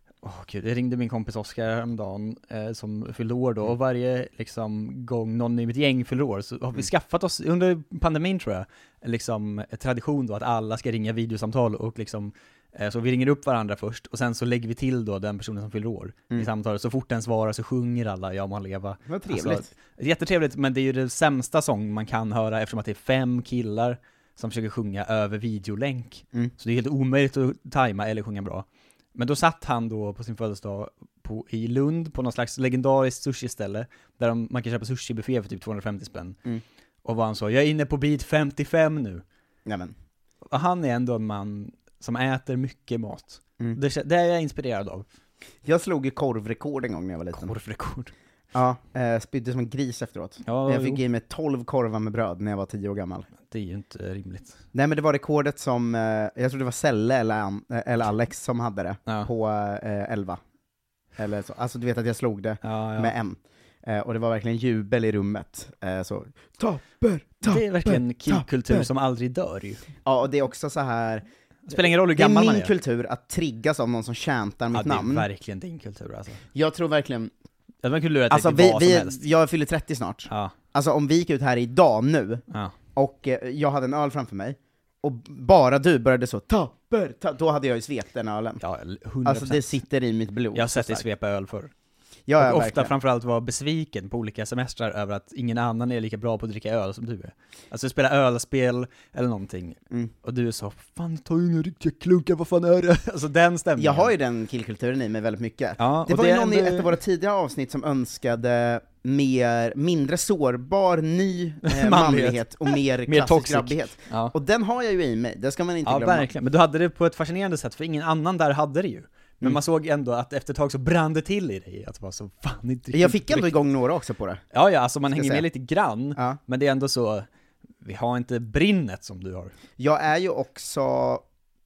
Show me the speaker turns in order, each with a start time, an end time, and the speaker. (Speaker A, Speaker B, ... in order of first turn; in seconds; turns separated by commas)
Speaker A: 0.2-36.4, Speaker B: 19.1-19.7, Speaker A: 37.0-39.2, Speaker B: 39.6-39.9, Speaker A: 40.5-45.0, Speaker B: 45.6-47.5, Speaker A: 47.3-48.1, Speaker B: 48.5-53.3, Speaker A: 50.4-51.0, Speaker A: 53.4-54.5, Speaker B: 54.7-60.4, Speaker B: 61.2-68.9, Speaker A: 62.6-63.1, Speaker A: 67.4-69.8, Speaker B: 70.0-75.3, Speaker A: 71.7-72.7, Speaker A: 74.7-76.4, Speaker B: 76.5-77.3, Speaker A: 77.8-79.2, Speaker B: 78.3-82.4, Speaker A: 80.3-80.5, Speaker B: 83.0-88.6, Speaker A: 88.6-89.7, Speaker B: 89.2-91.0, Speaker A: 90.5-91.7, Speaker B: 92.3-92.9, Speaker A: 92.4-104.1, Speaker B: 103.8-116.3, Speaker A: 105.8-107.0, Speaker A: 111.7-114.3, Speaker A: 115.8-123.5, Speaker B: 122.9-124.4, Speaker A: 124.5-127.2, Speaker B: 125.1-125.5, Speaker A: 127.8-129.5, Speaker B: 129.8-131.2